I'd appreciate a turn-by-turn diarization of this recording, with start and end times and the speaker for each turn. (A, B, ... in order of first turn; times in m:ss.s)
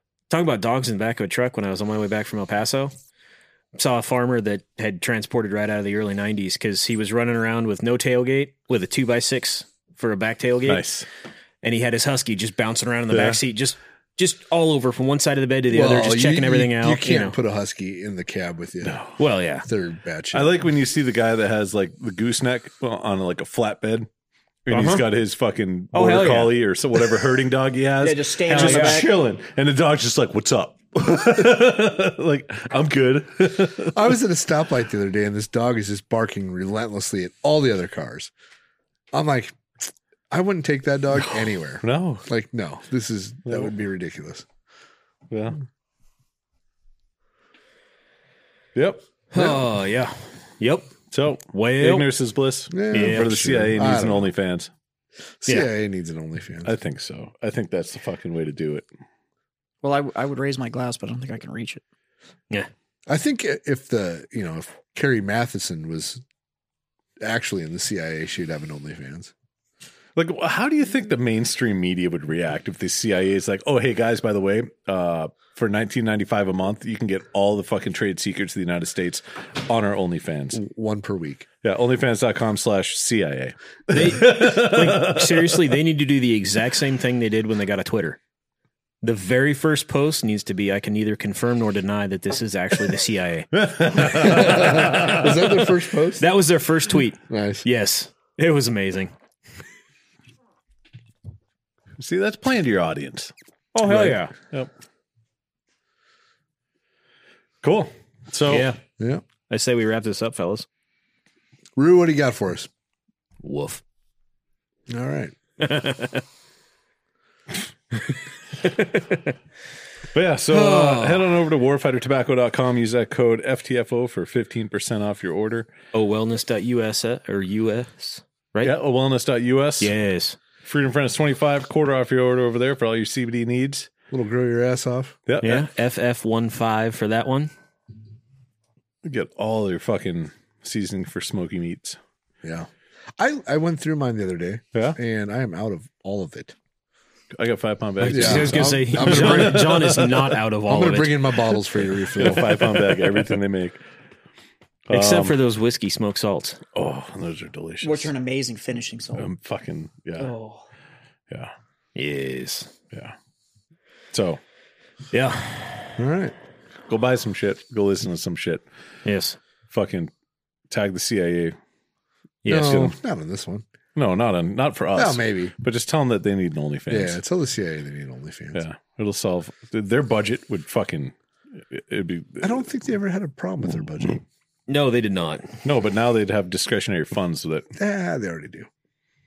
0:00.3-0:02.9 A
0:03.7-0:10.8 A
0:10.6-0:11.0 B
0:11.6-0:17.4 A
0:13.1-0:13.4 B
0:15.7-0:19.0 C
0:18.8-0:19.2 B
0:19.2-0:19.7 A
0:19.6-0:20.5 C
0:20.3-0:24.1 B
0:24.6-0:34.0 B
0:24.7-0:25.0 A
0:25.9-0:27.2 A
0:28.0-0:29.1 D
0:28.5-0:29.1 A
0:33.9-0:38.3 C
0:39.1-0:39.6 C
0:40.3-0:44.4 C
0:41.8-0:42.2 B
0:43.4-0:43.7 B
0:45.3-0:45.6 B
0:48.7-0:49.0 B
0:49.3-0:50.9 A
0:51.1-0:54.7 B
0:51.5-0:52.1 A
0:52.7-0:54.3 C
0:52.9-0:53.5 A
0:55.4-0:56.7 C
0:56.6-0:58.9 B
0:59.8-1:01.8 D
1:03.1-1:06.2 C
1:07.2-1:09.3 C
1:10.2-1:20.6 B
1:20.5-1:21.5 C
1:21.6-1:25.7 B
1:23.9-1:28.2 A
1:29.0-1:35.7 A
1:33.6-1:35.3 B
1:34.2-1:36.2 C
1:36.2-1:39.1 A
1:37.3-1:37.6 C
1:42.0-1:44.7 B
1:43.7-1:44.3 A
1:47.6-1:48.7 B
1:48.5-1:48.8 A
1:49.5-1:50.6 A
1:51.8-1:52.7 C
1:53.4-1:53.8 A
1:54.9-1:55.3 C
1:55.6-1:56.2 A
1:58.1-1:59.3 A
2:00.1-2:05.7 B
2:00.5-2:01.3 A
2:05.9-2:08.7 A
2:08.6-2:09.9 B
2:09.8-2:10.4 A
2:10.6-2:13.9 B
2:14.1-2:15.2 C
2:15.3-2:15.6 B
2:15.4-2:17.5 A
2:19.0-2:22.0 B
2:22.4-2:26.5 C
2:27.3-2:30.4 B
2:28.0-2:31.6 A
2:28.1-2:29.9 C
2:30.6-2:32.8 C
2:32.2-2:33.8 B
2:34.9-2:35.4 B
2:34.9-2:36.6 A
2:36.7-2:38.1 B
2:37.8-2:39.3 D
2:39.2-2:40.3 B
2:40.2-2:40.6 A
2:41.9-2:42.7 A
2:44.1-2:44.4 B
2:45.1-2:45.9 A
2:46.0-2:46.3 C
2:46.9-2:48.6 B
2:49.0-2:49.4 A
2:49.7-2:50.1 B
2:50.7-2:51.6 B
2:52.4-2:52.9 A
2:52.4-2:53.6 C
2:52.5-2:52.9 B
2:53.9-2:57.2 B
2:55.0-2:55.5 C
2:56.9-2:58.6 C
2:58.5-3:01.1 B
3:01.7-3:02.5 B
3:02.4-3:04.2 C
3:04.7-3:05.5 A
3:05.6-3:07.7 B
3:07.8-3:08.7 C